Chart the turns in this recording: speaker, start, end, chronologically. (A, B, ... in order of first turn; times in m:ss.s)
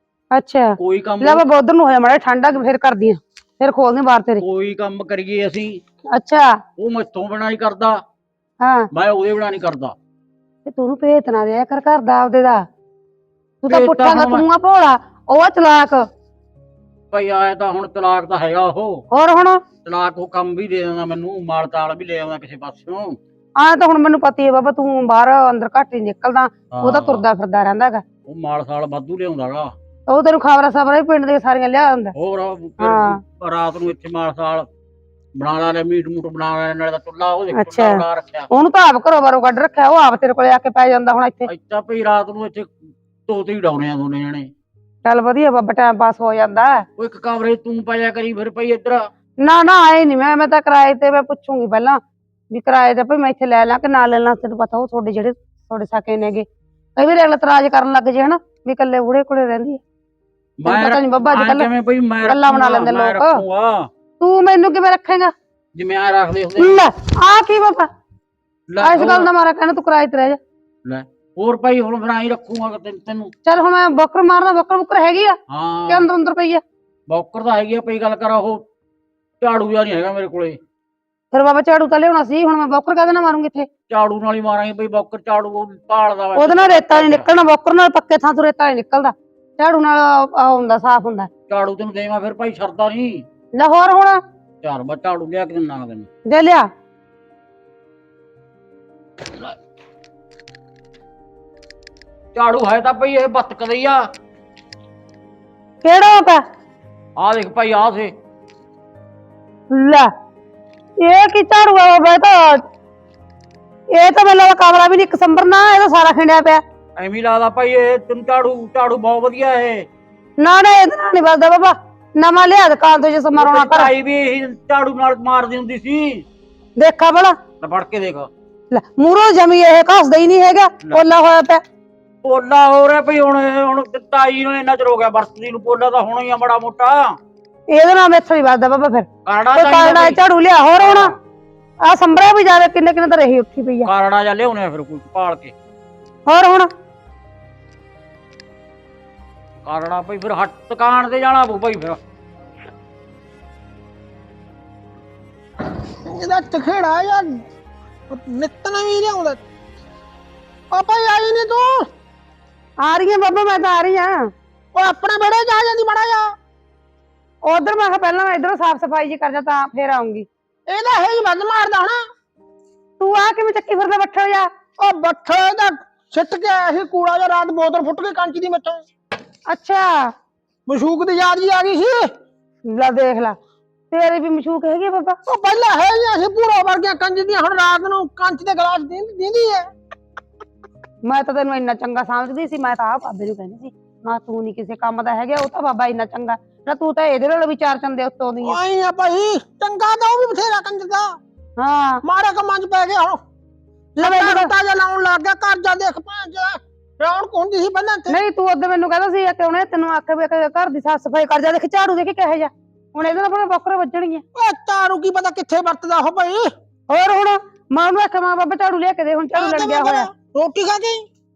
0:00.3-0:04.4 A
0:00.8-0:01.4 B
0:04.4-0:05.8 B
0:06.1-0:06.6 A
0:06.8-0:08.0 B
0:08.6-0:08.9 A
0:08.9-0:09.9 B
0:10.6-0:12.6 A
0:13.6-0:16.1 A
0:13.7-0:14.4 B
0:17.1-0:19.0 B
0:19.1-0:19.6 A
0:19.8-0:23.2 B
0:23.6-0:28.0 A
0:26.7-0:27.2 B
0:28.3-0:29.7 B
0:30.1-0:32.1 A
0:32.2-0:34.7 B
0:32.8-0:33.2 A
0:35.3-0:38.5 B
0:37.5-0:41.5 A
0:41.5-0:42.7 B
0:43.3-0:44.5 B
0:45.0-0:46.8 A
0:47.0-0:49.1 B
0:49.4-0:59.8 A
1:00.6-1:03.9 B
1:00.6-1:01.7 A
1:02.2-1:03.4 A
1:04.2-1:05.3 A
1:05.7-1:06.8 B
1:06.6-1:07.9 A
1:08.7-1:09.3 B
1:08.8-1:10.4 A
1:10.8-1:13.3 B
1:13.4-1:15.4 A
1:15.5-1:16.1 B
1:15.9-1:16.6 A
1:17.1-1:18.6 B
1:19.4-1:20.6 B
1:21.3-1:23.7 A
1:23.9-1:27.2 B
1:26.4-1:31.3 A
1:31.5-1:33.2 B
1:33.6-1:34.2 A
1:34.6-1:36.1 B
1:36.3-1:36.7 A
1:42.3-1:44.0 B
1:45.8-1:46.4 A
1:47.2-1:48.1 B
1:49.7-1:50.1 A
1:51.0-1:52.6 A
1:53.9-1:56.6 A
1:57.0-1:59.9 B
2:00.4-2:03.9 A
2:03.3-2:06.2 B
2:06.8-2:07.4 A
2:07.6-2:08.3 B
2:08.7-2:11.6 A
2:12.2-2:17.1 B
2:17.7-2:21.1 A
2:19.2-2:20.2 B
2:20.8-2:21.2 B
2:21.8-2:23.9 A
2:23.8-2:25.5 B
2:26.3-2:26.7 A
2:29.6-2:32.0 B
2:36.0-2:37.4 C
2:38.1-2:39.4 C
2:40.7-2:41.9 C
2:42.8-2:44.3 A
2:44.7-2:46.3 C
2:47.4-2:50.3 A
2:50.7-2:52.0 C
2:53.0-2:54.5 A
2:54.8-2:58.8 C
2:59.5-3:00.1 A
3:00.6-3:02.1 C
3:02.7-3:03.4 A
3:03.9-3:05.2 A
3:05.2-3:09.7 C
3:11.0-3:18.6 A
3:18.4-3:21.2 C
3:21.6-3:22.0 A
3:22.0-3:23.2 C
3:24.0-3:28.2 C
3:24.0-3:24.5 A
3:28.1-3:34.2 A
3:34.3-3:36.5 C
3:36.9-3:40.1 A
3:39.4-3:41.0 C